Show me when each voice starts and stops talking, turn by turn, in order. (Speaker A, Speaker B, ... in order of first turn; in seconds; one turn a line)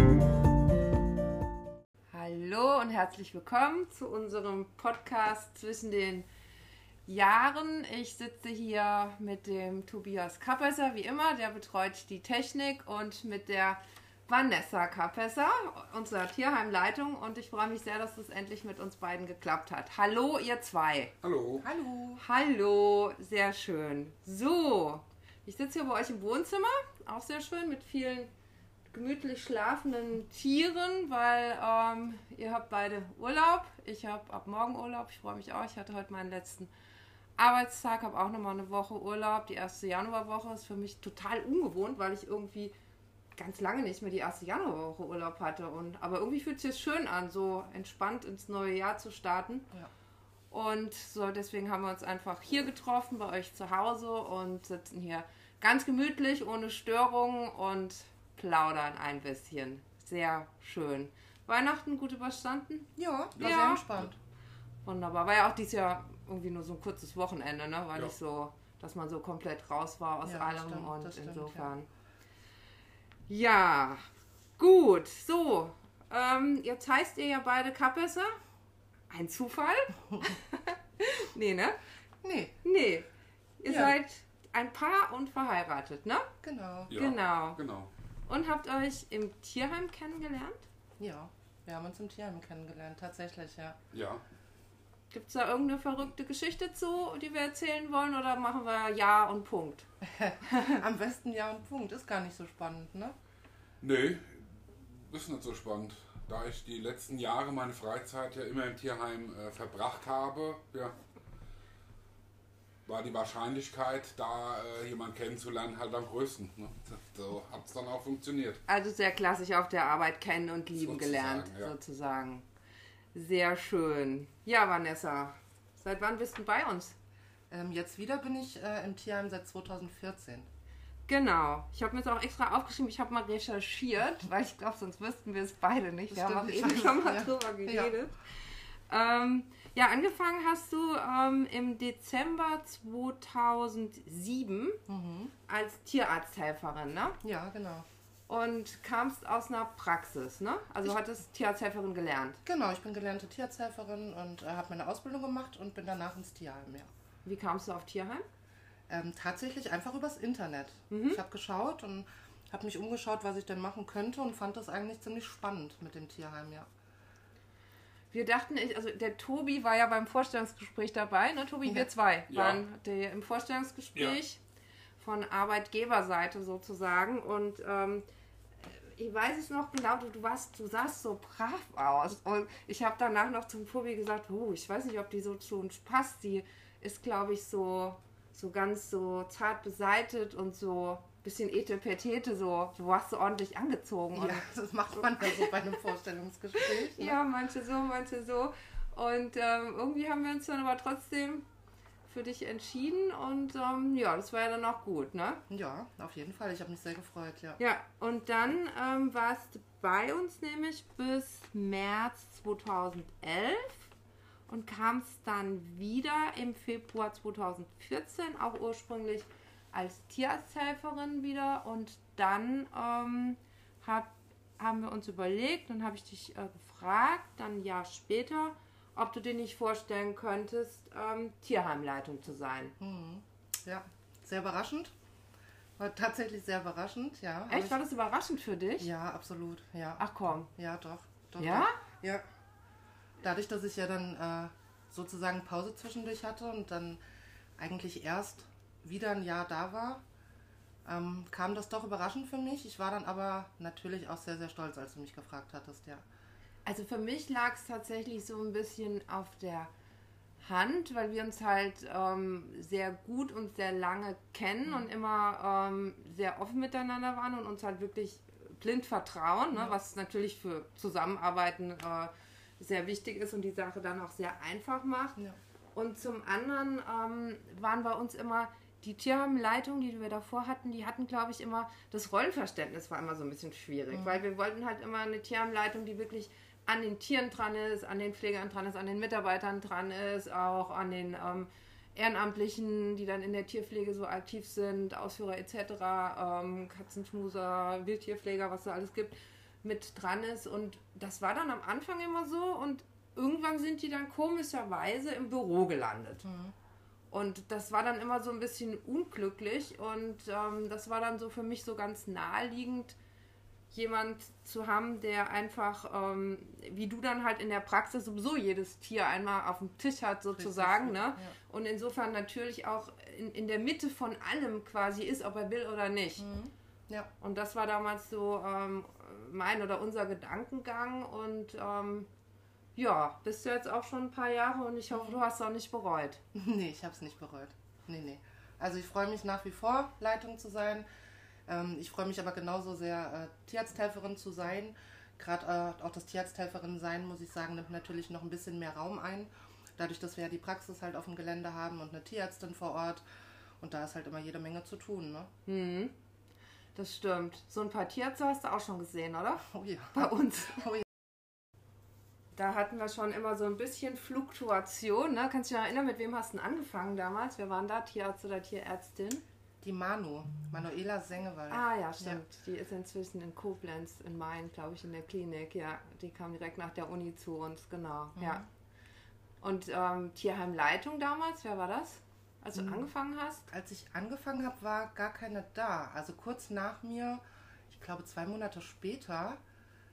Speaker A: 2.1-6.3
Speaker A: 7.1-21.1
Speaker B: 21.2-21.7
Speaker C: 21.6-22.2
Speaker A: 22.2-28.3
Speaker A: 28.9-36.7
Speaker A: 37.4-42.7
Speaker A: 43.4-49.7
Speaker A: 50.5-63.8
Speaker C: 63.0-64.2
Speaker B: 63.4-64.1
Speaker A: 64.8-71.9
Speaker C: 70.2-71.7
Speaker A: 73.3-74.0
Speaker A: 74.6-78.4
Speaker A: 79.1-81.8
Speaker C: 82.2-82.6
Speaker A: 82.6-83.1
Speaker A: 83.6-86.3
Speaker C: 83.7-84.0
Speaker C: 86.4-86.9
Speaker B: 86.9-87.9
Speaker A: 86.9-87.6
Speaker A: 88.3-90.7
Speaker C: 91.0-93.8
Speaker B: 93.9-94.2
Speaker A: 95.1-99.9
Speaker C: 100.0-103.1
Speaker A: 100.5-100.8
Speaker B: 103.8-111.0
Speaker B: 112.9-118.6
Speaker A: 118.7-122.5
Speaker B: 120.7-121.7
Speaker A: 123.1-127.0
Speaker C: 127.5-130.5
Speaker A: 131.1-138.2
Speaker C: 136.1-137.9
Speaker A: 138.9-144.8
Speaker C: 144.9-145.3
Speaker A: 145.5-147.2
Speaker C: 147.2-147.8
Speaker A: 148.3-152.4
Speaker C: 152.4-156.9
Speaker A: 157.2-158.2
Speaker C: 158.9-166.7
Speaker A: 160.9-161.2
Speaker A: 168.1-174.4
Speaker B: 172.3-172.6
Speaker A: 175.0-178.0
Speaker A: 178.7-194.4
Speaker C: 194.1-197.2
Speaker A: 196.6-201.4
Speaker A: 202.1-205.4
Speaker C: 205.5-207.6
Speaker A: 207.6-213.9
Speaker A: 214.5-232.7
Speaker C: 232.8-234.9
Speaker C: 235.8-237.8
Speaker A: 237.5-238.9
Speaker C: 238.8-240.0
Speaker A: 240.0-240.5
Speaker C: 240.5-242.2
Speaker A: 241.4-241.8
Speaker C: 243.2-247.0
Speaker C: 247.6-250.0
Speaker C: 250.8-256.0
Speaker A: 256.6-259.7
Speaker A: 260.4-275.2
Speaker A: 275.8-306.2
Speaker C: 283.9-284.2
Speaker C: 306.2-306.6
Speaker A: 307.1-313.0
Speaker A: 313.7-326.3
Speaker C: 320.4-321.4
Speaker C: 326.2-327.1
Speaker A: 327.2-332.1
Speaker A: 332.8-336.2
Speaker C: 334.9-335.2
Speaker C: 336.3-340.9
Speaker C: 341.5-353.0
Speaker C: 353.6-355.3
Speaker A: 355.5-355.9
Speaker A: 356.8-360.7
Speaker C: 359.5-360.9
Speaker A: 362.4-369.2
Speaker C: 369.6-372.2
Speaker A: 371.5-378.4
Speaker C: 378.2-378.4
Speaker A: 379.4-383.5
Speaker C: 382.6-382.9
Speaker C: 383.5-389.4